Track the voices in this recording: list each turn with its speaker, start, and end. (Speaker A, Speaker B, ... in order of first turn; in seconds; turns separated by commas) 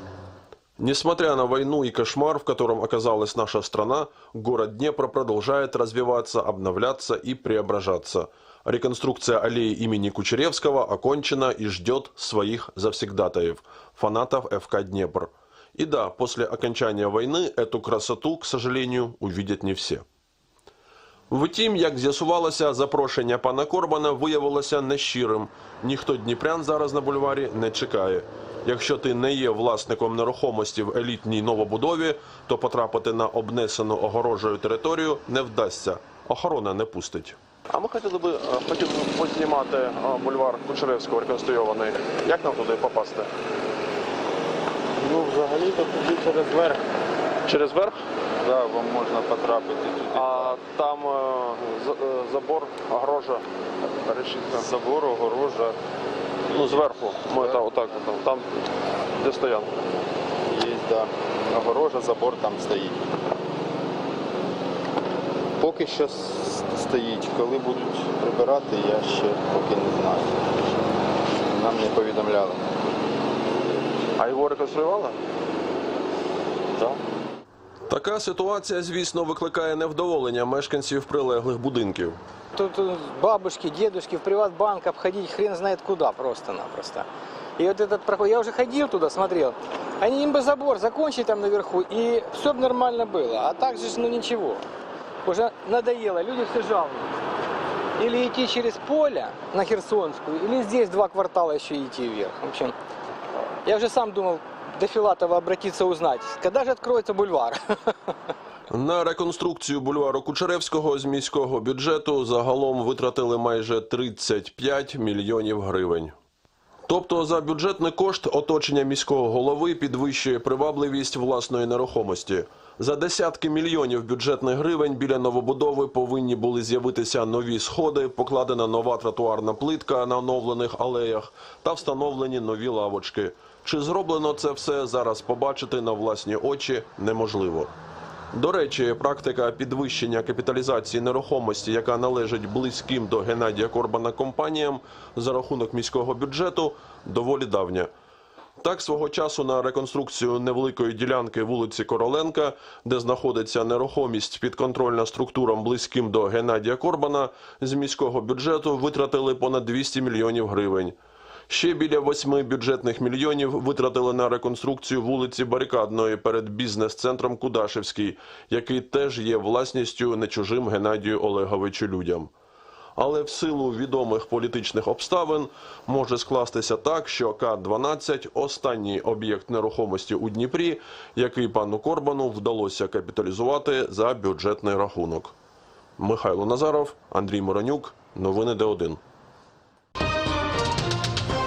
Speaker A: 0.8-20.1, Speaker A: 21.3-43.2, Speaker B: 37.7-43.3, Speaker C: 45.0-46.7, Speaker B: 47.5-48.0, Speaker C: 48.4-50.6, Speaker B: 50.2-53.4, Speaker B: 54.0-54.6, Speaker C: 54.5-55.8, Speaker C: 56.5-58.0, Speaker B: 56.5-58.5, Speaker A: 56.6-57.7, Speaker B: 59.2-59.7, Speaker C: 60.5-63.0, Speaker C: 65.6-70.8, Speaker C: 71.4-72.8, Speaker B: 74.2-75.2, Speaker A: 77.9-82.2, Speaker D: 82.5-94.6, Speaker D: 95.2-97.2, Speaker D: 98.0-102.8, Speaker D: 103.6-108.1, Speaker A: 108.7-116.2, Speaker A: 116.9-137.7, Speaker A: 138.3-147.9, Speaker A: 148.6-161.0, Speaker A: 161.5-172.3, Speaker A: 173.0-185.3, Speaker A: 186.0-189.0